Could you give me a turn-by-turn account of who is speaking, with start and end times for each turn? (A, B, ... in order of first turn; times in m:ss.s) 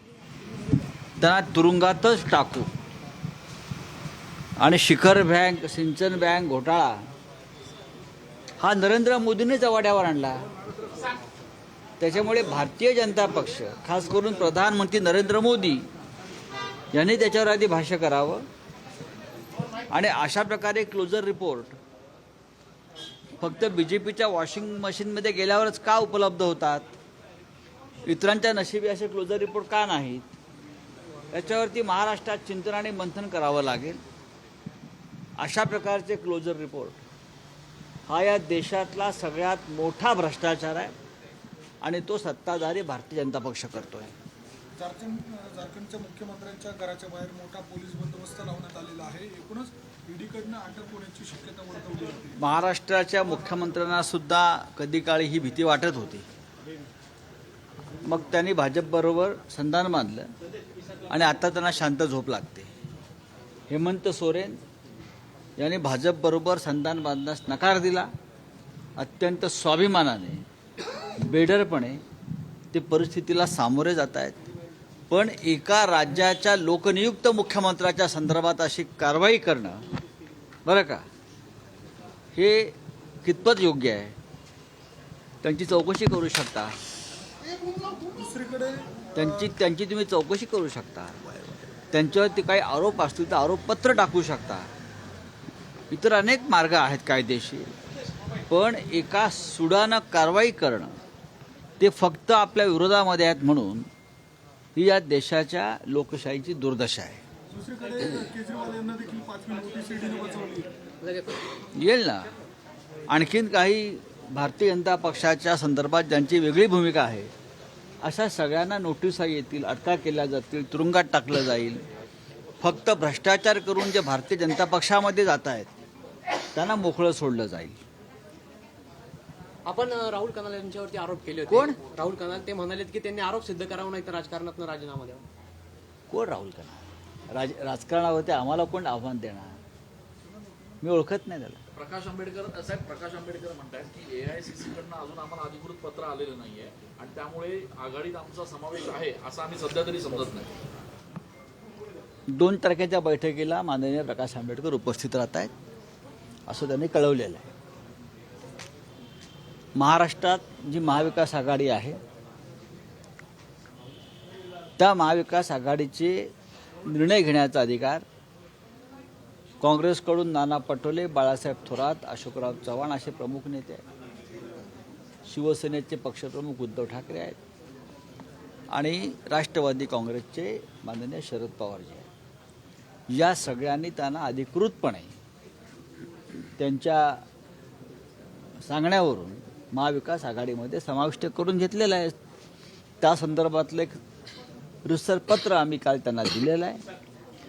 0:01.2-0:02.7 A
0:04.6-0:07.1 A
0:08.6-0:10.4 A
0:12.0-0:15.8 A
0:16.9-0:18.4 A
0:19.9-0:21.8 A
0:23.4-0:26.9 A
0:28.1-0:30.3 A
0:31.3-0:34.0 A
0:35.4-0:37.0 A
0:38.1-0:40.9 A
0:41.8-0:44.2 A
0:44.8-0:52.4 B
0:52.4-0:56.3 A
0:58.0-1:00.3 A
1:01.1-1:02.7 A
1:03.7-1:04.6 A
1:05.6-1:08.1 A
1:09.0-1:10.4 A
1:11.2-1:12.0 A
1:12.7-1:14.4 A
1:15.1-1:19.8 A
1:20.7-1:21.0 A
1:22.4-1:24.2 A
1:25.4-1:26.7 A
1:27.7-1:29.5 B
1:29.2-1:31.2 A
1:31.9-1:34.7 A
1:35.9-1:37.7 A
1:38.5-1:40.9 A
1:41.8-1:43.9 A
1:44.8-1:47.2 A
1:47.5-1:50.7 B
1:51.0-1:51.4 C
1:51.8-1:52.3 A
1:53.1-1:57.3 A
1:58.0-2:01.8 A
2:02.6-2:05.7 A
2:06.6-2:07.8 A
2:09.6-2:15.2 C
2:11.5-2:11.8 A
2:16.1-2:19.6 A
2:20.8-2:21.6 A
2:21.8-2:30.5 D
2:32.3-2:35.5 A
2:36.5-2:37.4 A
2:39.8-2:42.0 A
2:44.8-2:46.3 A
2:46.9-2:48.0 A
2:49.6-2:53.8 A
2:55.2-2:57.4 A
2:58.7-3:02.1 A
3:03.1-3:05.1 A
3:06.6-3:07.2 A
3:08.6-3:12.1 A
3:13.0-3:14.0 A
3:14.8-3:16.8 A